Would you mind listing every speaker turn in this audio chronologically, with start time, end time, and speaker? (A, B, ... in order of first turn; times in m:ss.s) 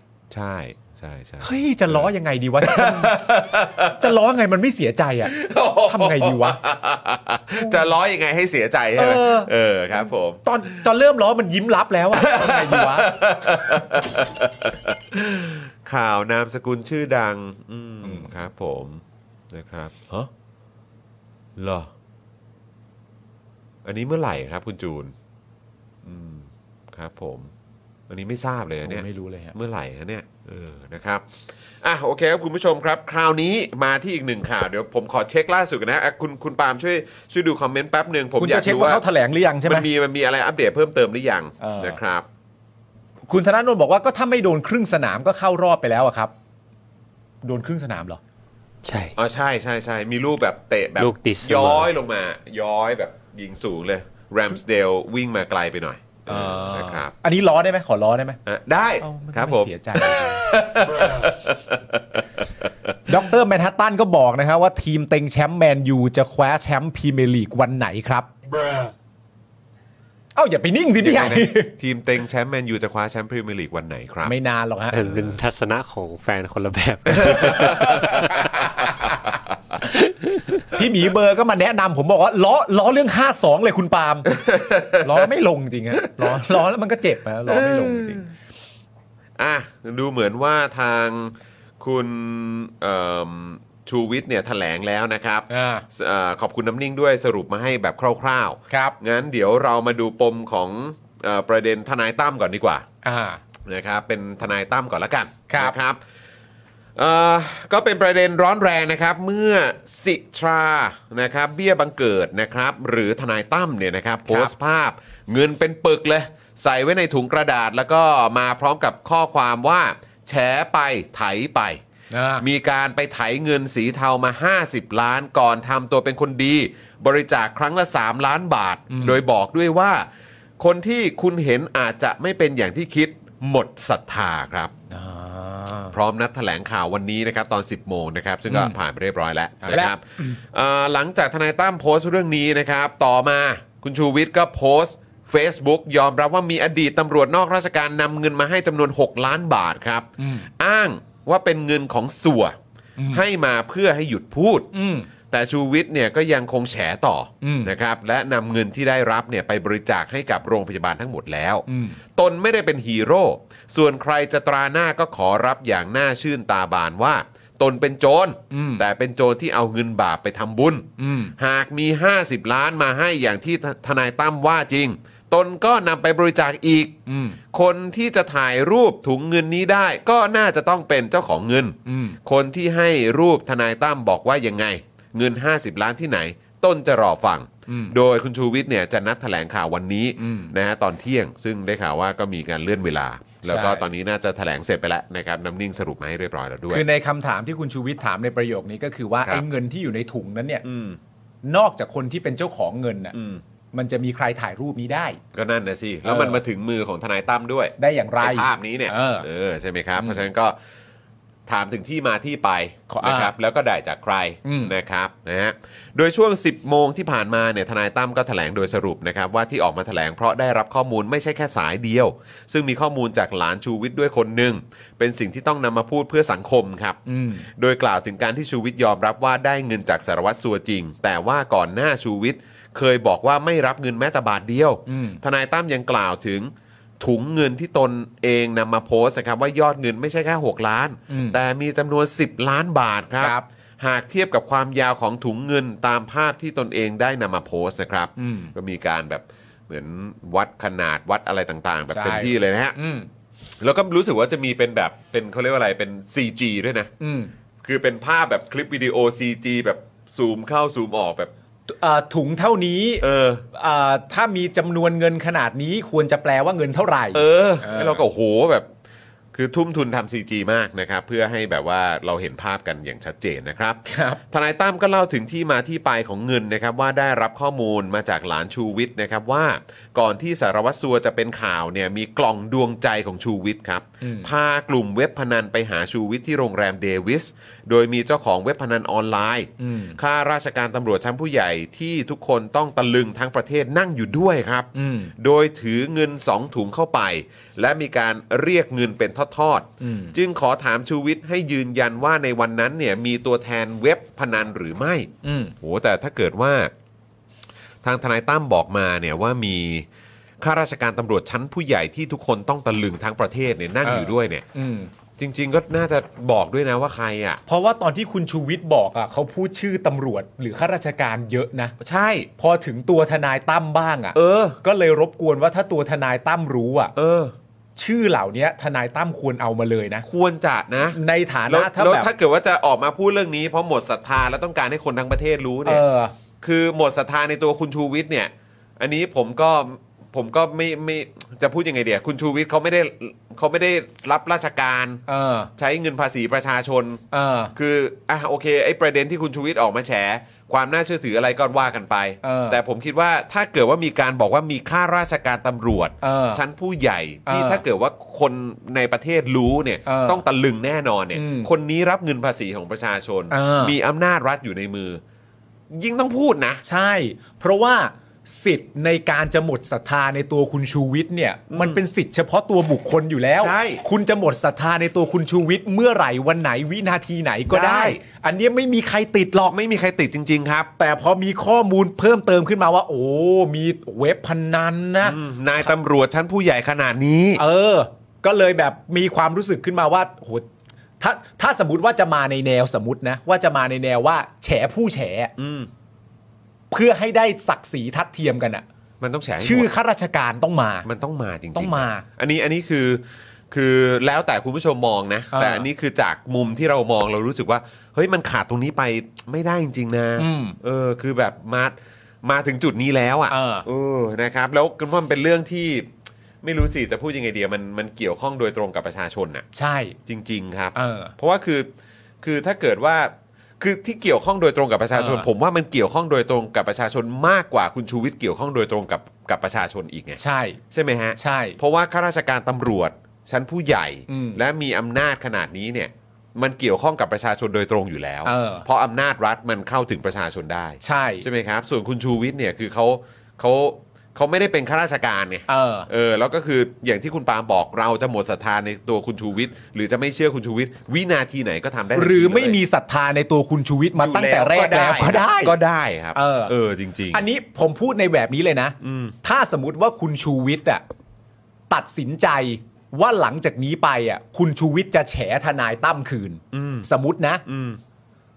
0:00.3-0:02.1 A
0:01.4-0:03.2 B
0:02.6-0:04.1 A
0:04.0-0:06.6 B
0:05.2-0:10.5 A
0:07.6-0:07.9 B
0:09.0-0:09.5 B
0:10.4-0:13.2 B
0:12.1-0:20.3 A
0:18.0-0:18.3 B
0:21.6-0:21.9 A
0:23.8-0:25.1 A
0:26.0-0:27.5 A
0:28.1-0:39.0 A
0:28.8-0:29.6 B
0:38.4-0:39.9 B
0:39.6-0:42.3 A
0:41.6-0:42.0 B
0:43.3-0:46.3 B
0:47.4-0:48.2 B
0:48.8-0:49.1 C
0:49.2-0:57.1 A
0:51.0-0:51.9 C
0:56.3-0:58.4 B
0:58.5-1:03.2 A
0:59.0-1:00.5 B
1:03.1-1:08.3 B
1:10.4-1:11.7 B
1:11.0-1:14.3 A
1:14.2-1:15.0 B
1:14.9-1:19.1 C
1:17.2-1:18.8 A
1:17.7-1:18.6 B
1:20.7-1:24.3 B
1:24.3-1:25.3 A
1:25.0-1:28.3 B
1:26.1-1:26.4 A
1:27.5-1:28.3 A
1:29.4-1:42.9 A
1:35.5-1:35.9 B
1:38.7-1:39.0 B
1:43.0-1:43.4 B
1:43.6-1:46.0 A
1:45.5-1:45.8 B
1:47.0-2:01.8 A
1:54.3-1:54.5 B
2:02.1-2:02.4 B
2:02.4-2:10.1 A
2:08.9-2:09.2 B
2:10.6-2:14.7 A
2:14.9-2:16.0 B
2:15.9-2:32.6 A
2:18.5-2:18.8 B
2:19.6-2:20.3 B
2:30.2-2:30.5 B
2:33.0-2:33.2 B
2:33.1-2:34.7 A
2:34.7-2:35.1 B
2:35.3-3:16.8 A
2:37.4-2:37.7 B
2:41.7-2:42.0 B
2:48.5-2:48.8 B
2:51.0-2:51.3 B
2:57.1-2:57.4 B
3:01.9-3:02.2 B
3:07.7-3:08.0 B
3:10.2-3:10.5 B
3:13.4-3:13.8 B
3:16.7-3:20.6 B
3:20.6-3:21.0 A
3:21.4-3:23.2 B
3:23.1-3:23.4 A
3:23.7-3:25.2 B
3:25.3-3:30.6 A
3:26.0-3:26.4 B
3:27.8-3:29.3 B
3:31.5-4:12.8 A
3:32.9-3:33.3 B
3:34.4-3:34.7 B
3:47.1-3:47.5 B
3:54.9-3:55.2 B
4:01.1-4:01.4 B
4:03.2-4:03.4 B
4:08.2-4:08.5 B
4:11.9-4:13.1 B
4:13.6-4:16.9 A
4:17.0-4:17.3 B
4:17.6-4:21.3 A
4:21.7-4:28.0 B
4:23.0-4:23.4 A
4:27.1-4:28.7 A
4:29.3-5:06.7 A
4:33.8-4:34.2 B
4:44.0-4:44.3 B
4:49.6-4:50.0 B
4:54.7-4:55.1 B
4:59.8-5:00.2 B
5:05.2-5:05.5 B
5:07.8-5:09.9 A
5:10.4-5:14.4 A
5:13.8-5:14.9 B
5:15.2-5:17.4 A
5:17.5-5:21.8 B
5:21.8-5:22.3 A
5:22.4-5:26.9 B
5:24.2-5:24.6 A
5:27.0-5:27.4 A
5:27.8-5:30.1 B
5:30.0-5:35.9 A
5:30.9-5:32.1 B
5:35.6-5:36.1 B
5:36.4-5:45.0 A
5:45.1-5:45.5 B
5:45.6-5:47.0 A
5:47.1-5:47.5 B
5:47.6-6:05.0 A
5:52.2-5:52.6 B
5:56.0-5:56.4 B
5:57.3-5:57.6 B
5:59.9-6:00.2 B
6:01.1-6:01.5 B
6:03.3-6:03.8 B
6:05.7-6:06.6 A
6:06.6-6:19.5 B
6:11.5-6:11.8 A
6:13.4-6:13.8 A
6:17.5-6:18.0 A
6:19.5-6:20.7 A
6:20.8-6:25.2 B
6:25.0-6:27.4 A
6:27.4-6:30.5 B
6:31.0-6:35.3 B
6:35.4-6:35.7 A
6:36.7-6:38.6 B
6:39.0-6:39.7 A
6:39.4-6:40.9 B
6:40.8-6:55.9 A
6:41.6-6:42.0 B
6:45.3-6:45.7 B
6:50.2-6:50.6 B
6:53.3-6:53.7 B
6:56.4-6:59.5 A
6:59.5-7:00.0 B
7:00.1-7:01.7 A
7:00.8-7:01.1 B
7:02.2-7:32.6 A
7:04.9-7:05.3 B
7:10.2-7:10.6 B
7:11.2-7:11.6 B
7:14.1-7:14.4 B
7:18.2-7:18.7 B
7:20.8-7:21.2 B
7:25.5-7:25.9 B
7:32.0-7:35.6 B
7:34.0-7:37.2 A
7:36.2-7:36.5 B
7:37.1-7:40.8 B
7:38.8-7:39.2 A
7:41.7-7:47.4 B
7:46.5-7:46.9 A
7:47.4-7:47.8 A